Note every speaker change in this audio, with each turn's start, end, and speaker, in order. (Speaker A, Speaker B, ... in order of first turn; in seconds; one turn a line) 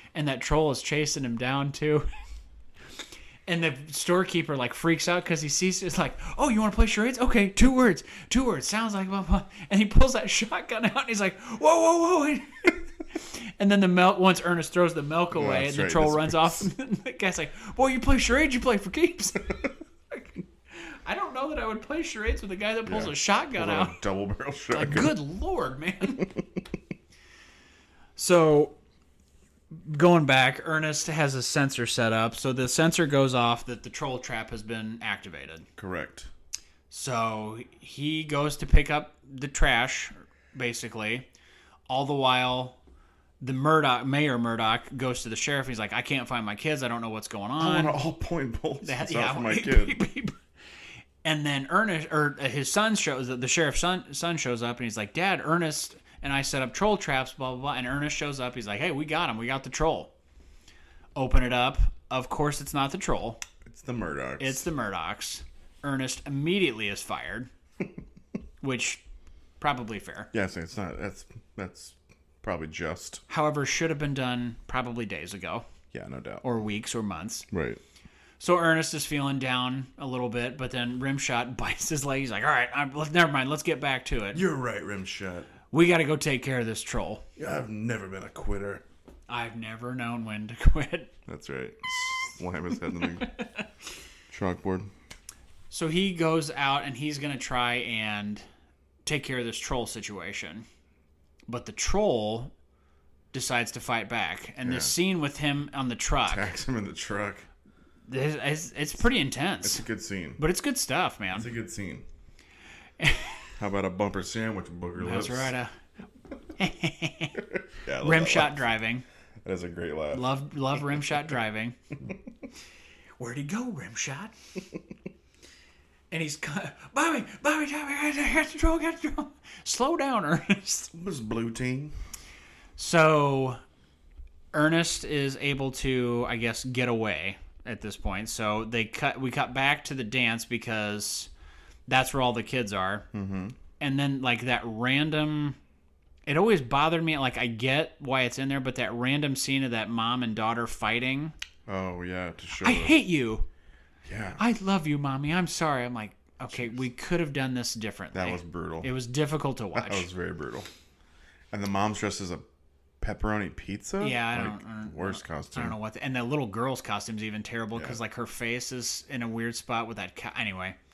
Speaker A: 0.1-2.1
Speaker A: 3.5-24.0
Speaker B: 15.3-16.7
Speaker B: 22.9-25.2
Speaker A: 24.7-26.3
Speaker A: 28.2-28.8
Speaker A: 29.7-35.7
Speaker B: 35.8-36.3
Speaker A: 36.9-41.2
Speaker A: 41.9-42.8
Speaker A: 43.4-48.0
Speaker B: 47.6-50.0
Speaker A: 48.8-50.3
Speaker A: 51.2-60.1
Speaker A: 61.1-63.4
Speaker B: 63.6-64.7
Speaker A: 64.4-67.5
Speaker A: 68.6-69.0
Speaker A: 69.6-70.3
Speaker B: 70.3-73.2
Speaker A: 73.3-75.6
Speaker B: 75.9-76.4
Speaker A: 76.4-77.5
Speaker B: 77.5-77.8
Speaker A: 78.4-84.4
Speaker B: 84.3-85.5
Speaker A: 85.7-87.2
Speaker B: 87.4-88.8
Speaker A: 89.3-91.1
Speaker B: 91.3-93.3
Speaker A: 93.2-93.7
Speaker B: 94.3-94.9
Speaker A: 95.7-98.4
Speaker A: 99.0-100.7
Speaker A: 101.5-102.5
Speaker A: 103.3-106.5
Speaker B: 104.6-104.9
Speaker B: 106.3-107.5
Speaker A: 108.1-109.8
Speaker B: 109.6-110.4
Speaker A: 110.4-111.5
Speaker B: 111.3-112.0
Speaker A: 113.0-113.5
Speaker B: 113.6-115.5
Speaker A: 115.0-115.8
Speaker A: 116.6-117.4
Speaker B: 117.7-118.7
Speaker A: 118.0-119.0
Speaker B: 119.4-120.3
Speaker A: 120.1-121.8
Speaker A: 123.2-124.3
Speaker A: 126.1-130.9
Speaker B: 130.9-131.9
Speaker A: 132.8-133.6
Speaker A: 134.5-141.3
Speaker A: 141.9-143.1
Speaker B: 143.1-143.6
Speaker A: 143.8-145.6
Speaker A: 146.2-151.3
Speaker B: 151.7-153.0
Speaker A: 152.6-153.5
Speaker B: 154.1-154.4
Speaker A: 154.4-160.1
Speaker B: 158.1-158.9
Speaker B: 159.7-160.7
Speaker B: 161.5-162.4
Speaker B: 163.0-165.8
Speaker A: 164.0-170.8
Speaker B: 167.7-168.0